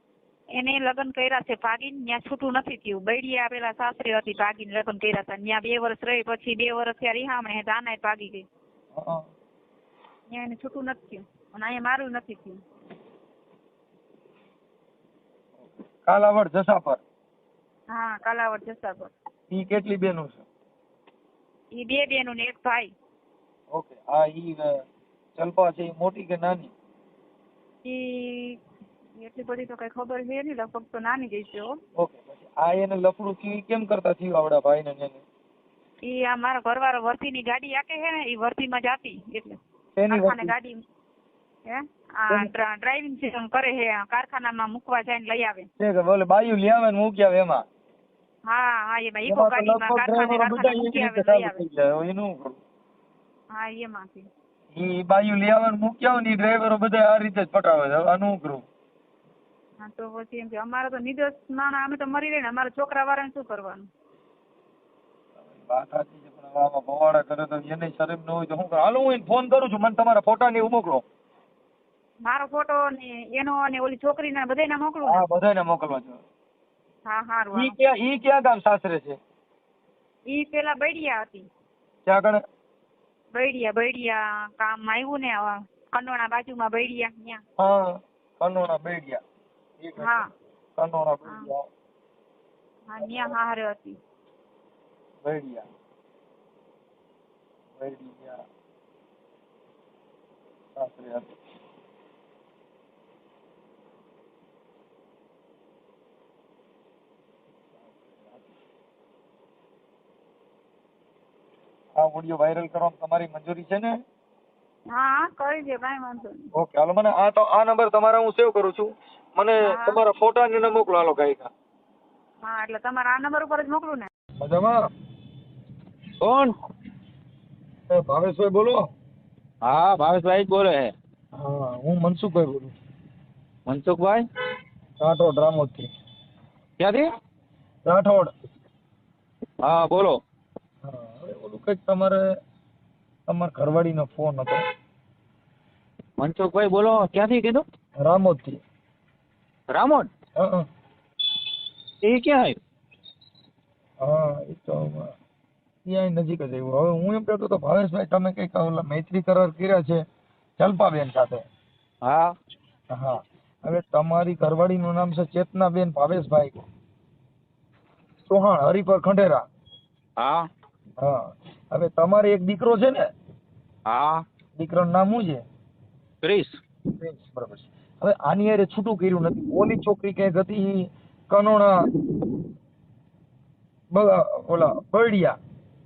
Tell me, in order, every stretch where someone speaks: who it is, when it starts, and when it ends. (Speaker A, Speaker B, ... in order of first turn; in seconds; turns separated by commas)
Speaker A: 0.5-8.4, Speaker B: 8.9-9.3, Speaker A: 10.3-12.6, Speaker B: 15.6-17.0, Speaker A: 17.9-19.1, Speaker B: 19.5-20.4, Speaker A: 21.7-22.9, Speaker B: 23.7-24.8, Speaker B: 25.4-26.7, Speaker A: 27.8-28.6, Speaker A: 29.2-31.8, Speaker B: 31.9-35.2, Speaker A: 36.0-39.6, Speaker B: 40.0-40.5, Speaker A: 40.1-40.8, Speaker A: 41.7-45.7, Speaker B: 45.8-47.6, Speaker A: 48.5-51.6, Speaker B: 49.2-52.6, Speaker A: 53.5-54.2, Speaker B: 54.7-58.6, Speaker A: 59.8-63.9, Speaker B: 65.5-71.0, Speaker A: 72.2-75.2, Speaker B: 75.0-76.2, Speaker A: 77.1-77.8, Speaker B: 77.5-79.2, Speaker A: 80.3-81.5, Speaker B: 82.0-82.4, Speaker A: 83.3-87.4, Speaker B: 87.6-89.2, Speaker B: 89.8-90.2, Speaker A: 90.0-90.3, Speaker B: 90.8-91.7, Speaker A: 92.9-94.0, Speaker B: 95.2-95.7, Speaker B: 97.8-98.4, Speaker B: 100.8-101.3, Speaker B: 108.0-108.5, Speaker B: 112.0-114.0, Speaker A: 114.9-116.5, Speaker B: 116.5-121.5, Speaker A: 119.6-120.0, Speaker A: 122.4-124.1, Speaker B: 124.4-124.9, Speaker C: 126.2-126.5, Speaker B: 127.9-128.9, Speaker C: 129.6-130.9, Speaker B: 131.3-132.7, Speaker C: 133.7-134.2, Speaker B: 135.0-135.9, Speaker C: 136.8-137.1, Speaker B: 137.8-138.3, Speaker C: 139.6-140.2, Speaker B: 140.8-142.2, Speaker B: 143.3-144.7, Speaker C: 146.2-147.6, Speaker B: 148.0-148.6, Speaker C: 149.7-150.1, Speaker B: 150.3-150.7, Speaker C: 152.0-152.6, Speaker B: 154.0-155.1, Speaker B: 155.8-160.0, Speaker B: 160.6-161.4, Speaker C: 162.0-162.3, Speaker B: 162.9-166.6, Speaker B: 168.3-169.5, Speaker C: 170.2-170.5, Speaker B: 171.0-173.1, Speaker C: 173.9-174.2, Speaker B: 174.6-175.4, Speaker C: 176.2-176.6, Speaker B: 177.0-181.9, Speaker B: 183.9-185.4